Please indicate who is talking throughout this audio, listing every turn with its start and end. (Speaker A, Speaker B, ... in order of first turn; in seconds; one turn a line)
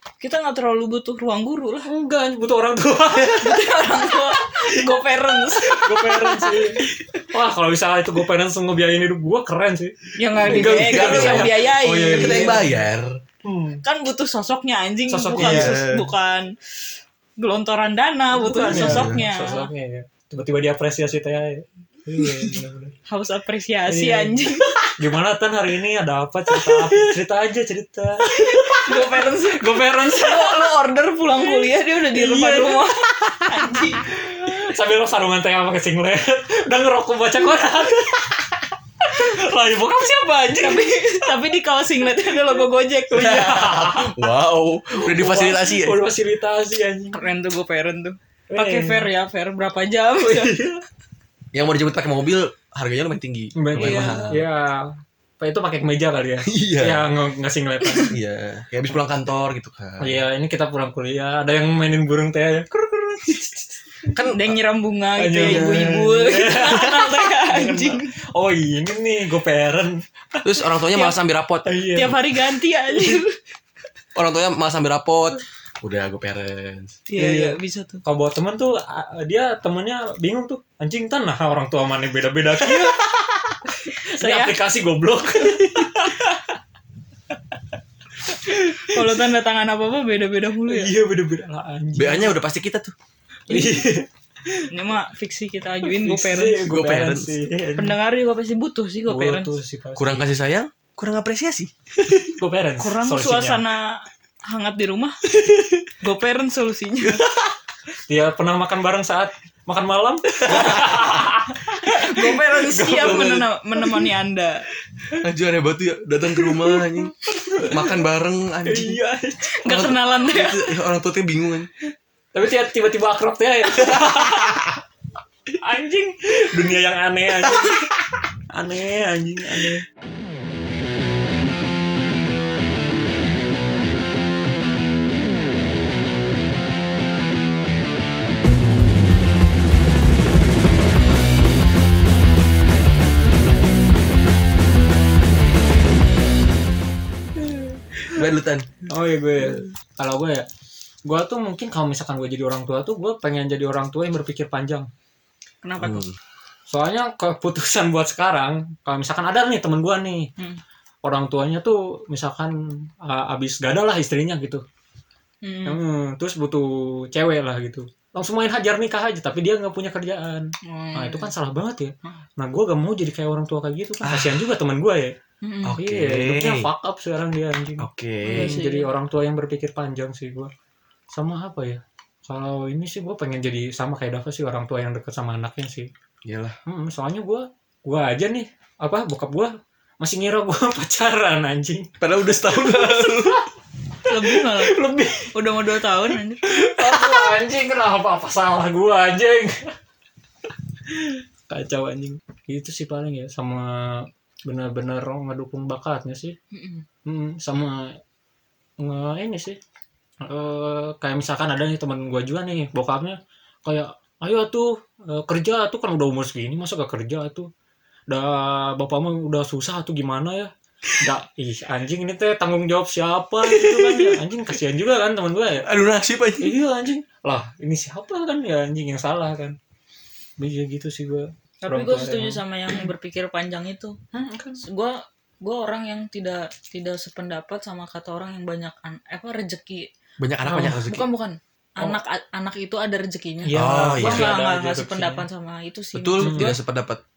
Speaker A: 0.2-1.9
Speaker B: 1.9-12.8
Speaker A: 3.3-7.3
Speaker A: 10.2-12.8
Speaker C: 10.4-13.2
Speaker B: 13.4-13.8
Speaker A: 13.8-16.5
Speaker B: 15.1-15.8
Speaker C: 15.3-16.1
Speaker A: 17.4-19.7
Speaker B: 18.3-22.9
Speaker C: 18.7-19.2
Speaker A: 22.3-22.5
Speaker A: 23.1-24.9
Speaker B: 23.9-30.7
Speaker A: 26.6-27.0
Speaker A: 28.2-34.7
Speaker B: 31.4-41.3
Speaker A: 40.5-43.9
Speaker B: 43.1-44.2
Speaker C: 43.4-46.0
Speaker B: 44.9-47.3
Speaker A: 47.1-50.6
Speaker B: 48.5-49.1
Speaker B: 50.2-50.8
Speaker C: 51.5-54.4
Speaker B: 53.6-58.1
Speaker A: 53.8-54.3
Speaker C: 56.5-57.1
Speaker C: 58.1-60.2
Speaker B: 60.0-64.1
Speaker C: 64.1-64.6
Speaker A: 64.3-68.1
Speaker B: 65.2-70.0
Speaker C: 65.4-66.0
Speaker C: 70.4-71.8
Speaker B: 71.6-72.2
Speaker A: 71.9-73.4
Speaker C: 74.1-77.0
Speaker A: 77.1-78.0
Speaker B: 77.2-83.1
Speaker B: 83.7-86.5
Speaker A: 84.0-84.6
Speaker B: 87.5-89.2
Speaker A: 88.5-90.9
Speaker B: 90.7-92.4
Speaker C: 92.0-92.9
Speaker B: 93.5-94.7
Speaker A: 93.5-93.9
Speaker A: 94.7-96.7
Speaker B: 95.8-98.0
Speaker C: 96.6-97.4
Speaker A: 97.8-99.5
Speaker B: 99.1-100.2
Speaker C: 100.0-102.3
Speaker B: 102.2-103.6
Speaker A: 102.8-105.2
Speaker A: 105.9-107.3
Speaker B: 108.0-113.3
Speaker C: 110.5-111.1
Speaker A: 111.8-114.6
Speaker C: 112.8-113.5
Speaker C: 115.1-119.0
Speaker B: 116.3-118.0
Speaker B: 118.6-119.6
Speaker A: 119.4-120.8
Speaker C: 119.6-121.7
Speaker B: 122.3-124.7
Speaker C: 123.8-124.7
Speaker B: 125.6-127.9
Speaker B: 128.5-129.8
Speaker B: 147.4-148.2
Speaker C: 148.1-148.9
Speaker B: 148.9-150.5
Speaker B: 151.1-154.9
Speaker A: 155.6-156.1
Speaker C: 155.8-156.1
Speaker B: 156.7-160.3
Speaker B: 161.0-164.6
Speaker A: 165.4-165.8
Speaker B: 165.7-180.5
Speaker A: 170.6-171.3
Speaker C: 174.0-174.5
Speaker A: 175.4-175.8
Speaker C: 175.7-176.7
Speaker C: 177.8-178.6
Speaker A: 178.2-178.9
Speaker B: 181.1-185.9
Speaker C: 186.2-186.6
Speaker B: 186.7-191.9
Speaker C: 192.0-193.4
Speaker B: 192.4-193.4
Speaker B: 194.0-195.3
Speaker A: 194.1-194.8
Speaker A: 195.3-196.7
Speaker B: 196.4-199.7
Speaker B: 200.8-206.4
Speaker A: 206.5-206.8
Speaker B: 207.1-208.0
Speaker B: 208.8-209.6
Speaker B: 210.2-217.5
Speaker B: 218.1-225.7
Speaker C: 223.5-224.2
Speaker C: 225.6-226.6
Speaker B: 226.4-229.6
Speaker B: 230.4-232.9
Speaker A: 231.6-234.0
Speaker B: 234.1-234.6
Speaker A: 234.6-239.9
Speaker C: 240.2-241.1
Speaker B: 240.4-240.8
Speaker A: 240.6-246.6
Speaker B: 243.4-245.3
Speaker C: 243.6-244.3
Speaker C: 245.9-247.0
Speaker B: 246.2-246.5